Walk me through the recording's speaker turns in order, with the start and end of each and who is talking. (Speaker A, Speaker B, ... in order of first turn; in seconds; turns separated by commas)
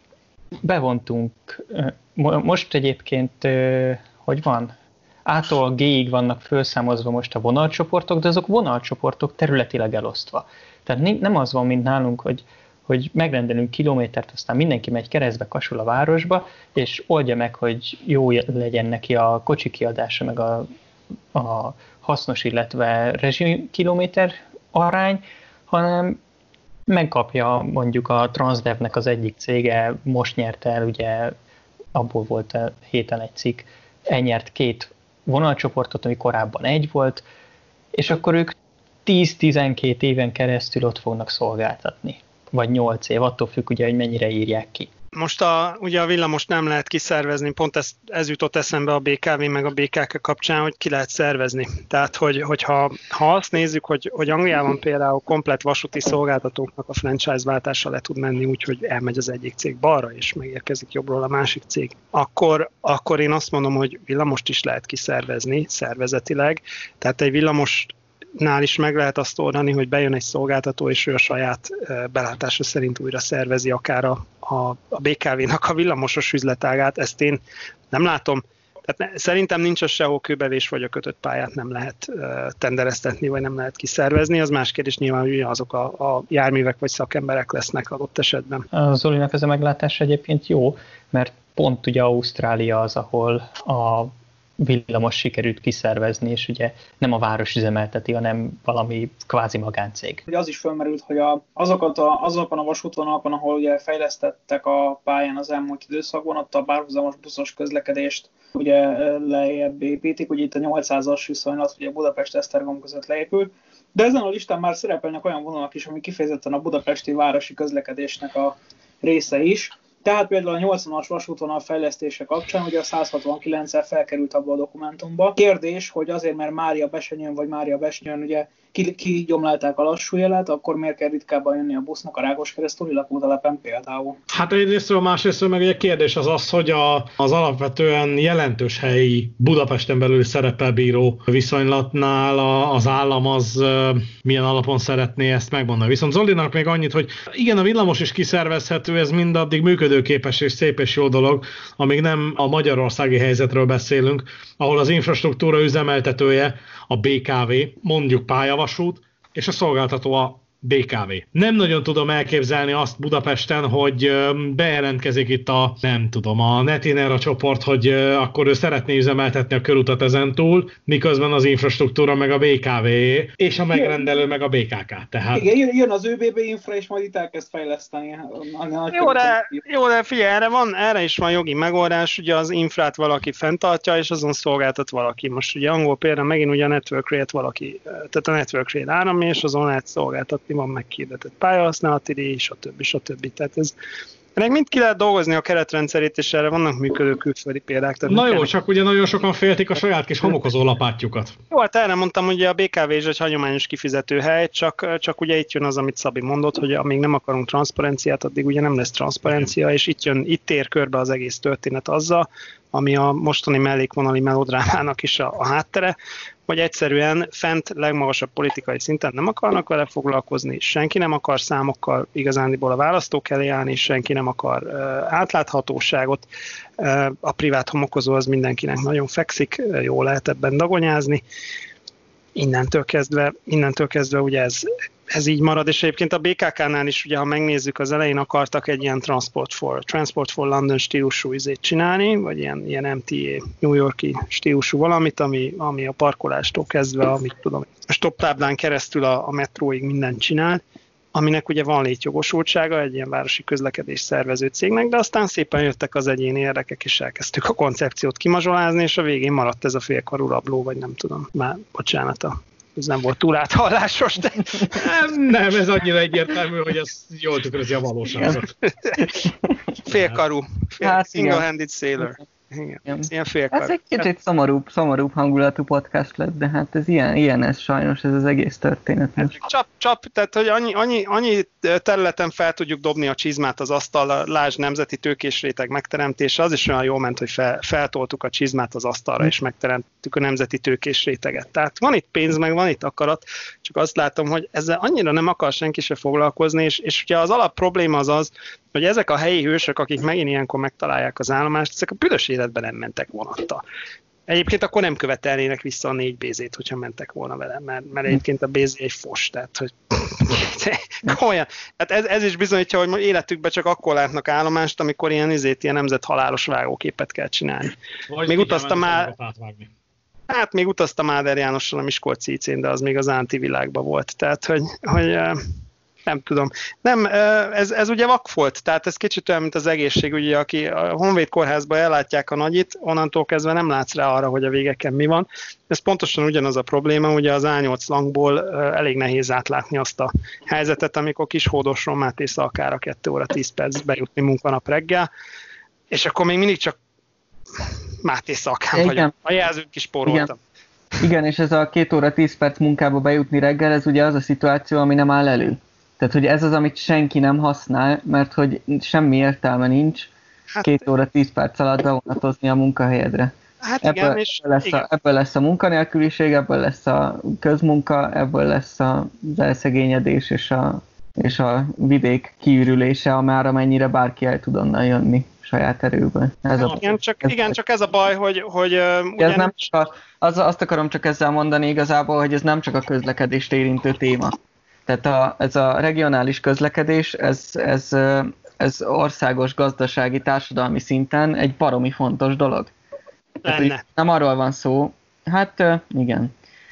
Speaker A: 0.6-4.7, Speaker A: 5.2-20.7, Speaker A: 21.3-26.2, Speaker A: 26.9-31.3, Speaker A: 31.9-37.2, Speaker A: 37.9-44.9, Speaker B: 45.1-77.4, Speaker B: 77.9-88.7, Speaker A: 88.7-100.2, Speaker C: 100.3-134.2, Speaker D: 134.3-175.5, Speaker C: 173.7-174.1, Speaker C: 175.3-179.6, Speaker B: 178.9-193.7, Speaker B: 194.3-198.5, Speaker D: 198.1-201.4, Speaker B: 201.5-215.9, Speaker B: 216.5-226.2, Speaker B: 226.8-231.2, Speaker B: 232.3-250.6, Speaker B: 251.1-264.8, Speaker D: 264.7-268.5, Speaker B: 268.6-269.3, Speaker E: 269.0-269.5, Speaker B: 269.9-274.1, Speaker D: 269.9-270.2, Speaker E: 270.8-271.4, Speaker E: 272.9-279.3, Speaker B: 279.2-303.6, Speaker B: 304.3-317.7, Speaker D: 318.1-319.7, Speaker B: 318.2-319.1, Speaker B: 320.3-325.4, Speaker B: 326.1-345.1, Speaker B: 345.9-346.8, Speaker B: 348.0-350.4, Speaker E: 348.7-349.1, Speaker E: 351.0-360.1, Speaker B: 360.5-360.9, Speaker E: 360.6-363.3, Speaker B: 363.6-364.8, Speaker E: 363.8-377.6, Speaker B: 376.6-379.7, Speaker E: 379.2-392.7, Speaker B: 393.4-393.8, Speaker E: 393.4-396.3